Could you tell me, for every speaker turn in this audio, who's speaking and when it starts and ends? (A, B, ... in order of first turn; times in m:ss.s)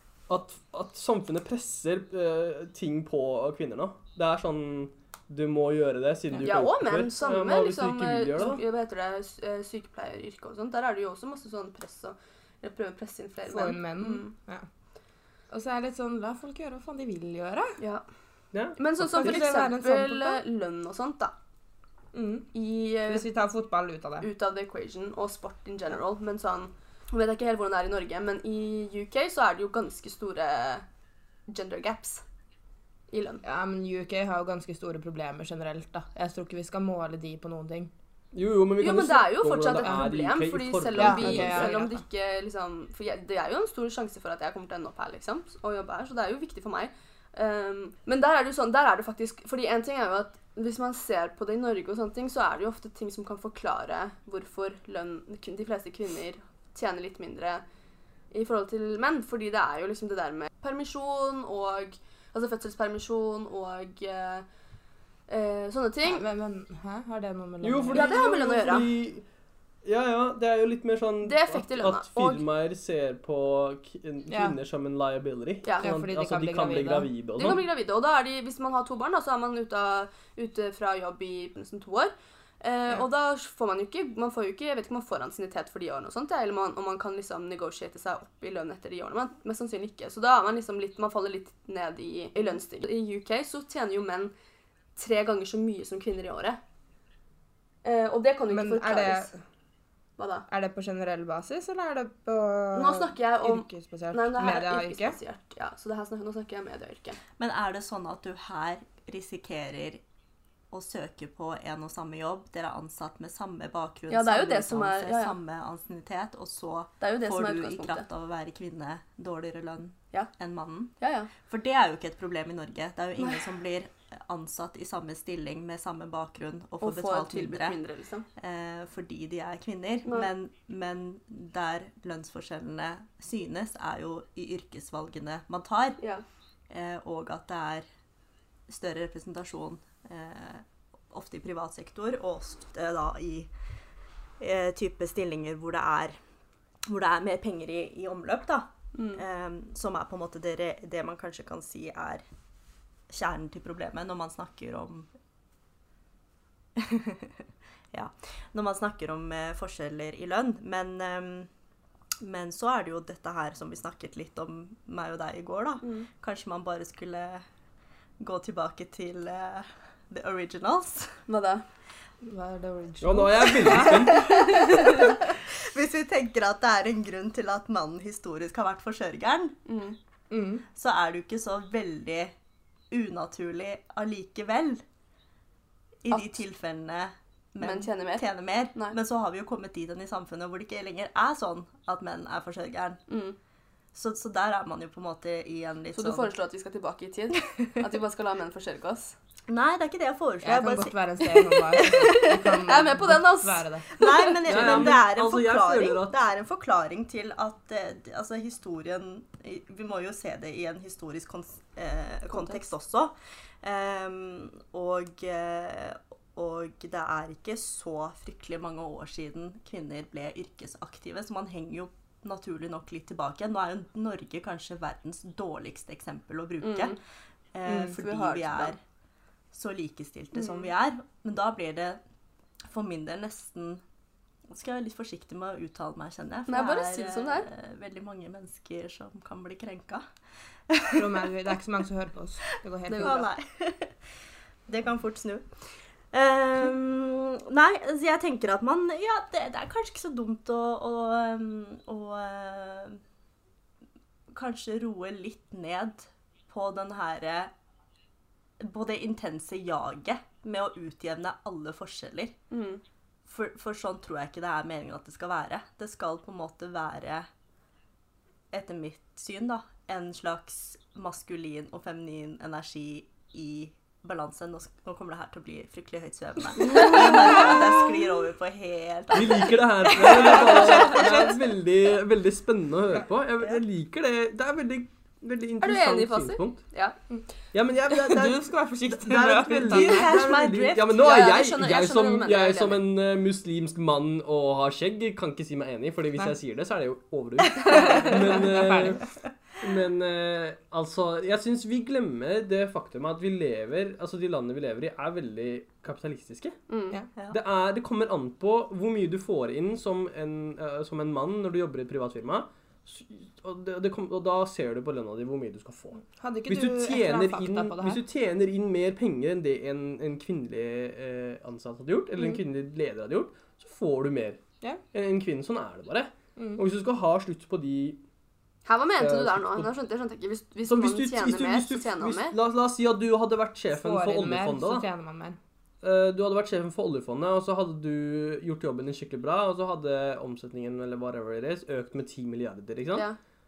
0:00.3-0:08.6 A
0:06.4-0:14.3 B
0:13.5-0:14.7 C
0:15.5-0:17.8 C
0:17.8-0:18.0 B
0:18.5-0:19.5 A
0:18.8-0:21.3 B
0:19.2-0:20.4 C
0:22.1-0:22.5 C
0:22.5-0:23.3 B
0:23.1-0:24.3 C
0:24.2-0:30.8 B
0:31.5-0:32.2 B
0:33.1-0:33.4 B
0:33.4-0:37.9 C
0:38.3-0:41.8 A
0:38.8-0:57.6 B
0:41.0-0:42.0 C
0:58.3-1:04.5 B
1:05.3-1:06.2 B
1:06.0-1:08.1 C
1:07.6-1:09.2 A
1:07.9-1:08.9 B
1:09.8-1:17.7 A
1:11.2-1:12.4 B
1:14.3-1:14.6 C
1:15.8-1:17.1 C
1:17.4-1:34.3 B
1:35.0-1:36.6 B
1:37.8-1:39.3 B
1:38.5-1:39.4 C
1:40.2-1:40.5 B
1:40.5-1:45.2 C
1:42.8-1:47.2 B
1:47.4-1:50.0 D
1:50.7-2:07.8 D
1:54.1-1:55.4 B
1:57.0-1:58.0 B
2:01.0-2:01.3 B
2:03.2-2:03.5 B
2:06.8-2:08.3 B
2:08.4-2:16.0 D
2:16.7-2:17.9 D
2:18.7-2:23.5 D
2:24.4-2:26.2 D
2:26.9-2:32.2 D
2:28.9-2:29.2 B
2:33.1-2:35.1 D
2:36.8-2:41.5 D
2:42.2-2:47.4 D
2:45.8-2:46.1 B
2:48.2-2:51.2 D
2:51.3-2:51.6 B
2:52.2-2:54.3 C
2:53.0-2:54.6 A
2:54.0-2:55.2 B
2:54.3-2:59.6 D
2:59.7-3:00.0 B
3:00.3-3:00.7 C
3:00.7-3:02.3 D
3:02.9-3:04.8 D
3:06.0-3:13.0 D
3:06.1-3:06.4 B
3:07.6-3:09.0 B
3:13.1-3:13.4 B
3:13.9-3:16.3 D
3:15.9-3:19.2 B
3:19.5-3:22.5 D
3:20.4-3:23.9 C
3:22.6-3:24.8 B
3:24.0-3:47.0 D
3:24.5-3:26.1 A
3:32.3-3:32.6 B
3:46.6-3:47.0 B
3:47.5-3:48.8 D
3:47.7-3:48.0 C
3:47.7-3:48.7 B
3:49.5-3:52.0 D
3:50.3-3:50.7 B
3:52.7-3:53.8 D
3:54.5-4:00.0 D
3:56.5-3:57.5 B
4:00.7-4:01.3 D
4:00.9-4:03.3 C
4:02.9-4:03.2 B
4:03.0-4:04.0 D
4:04.7-4:05.5 D
4:06.1-4:13.0 D
4:14.3-4:17.5 D
4:18.6-4:22.4 D
4:22.5-4:22.8 B
4:23.3-4:27.3 D
4:28.5-4:41.0 D
4:39.1-4:46.6 A
4:40.1-4:41.4 C
4:45.6-4:47.0 B
4:47.5-4:59.1 A
4:47.9-4:50.1 C
4:49.7-4:51.0 D
4:51.0-4:52.8 B
4:57.7-4:59.0 C
4:59.6-5:06.6 A
5:06.7-5:07.0 B
5:07.3-5:24.4 A
5:16.1-5:18.0 C
5:24.9-5:28.0 A
5:26.4-5:26.6 C
5:28.7-5:32.4 B
5:29.0-5:29.7 A
5:30.7-5:34.9 A
5:33.7-5:35.4 C
5:35.8-5:43.1 A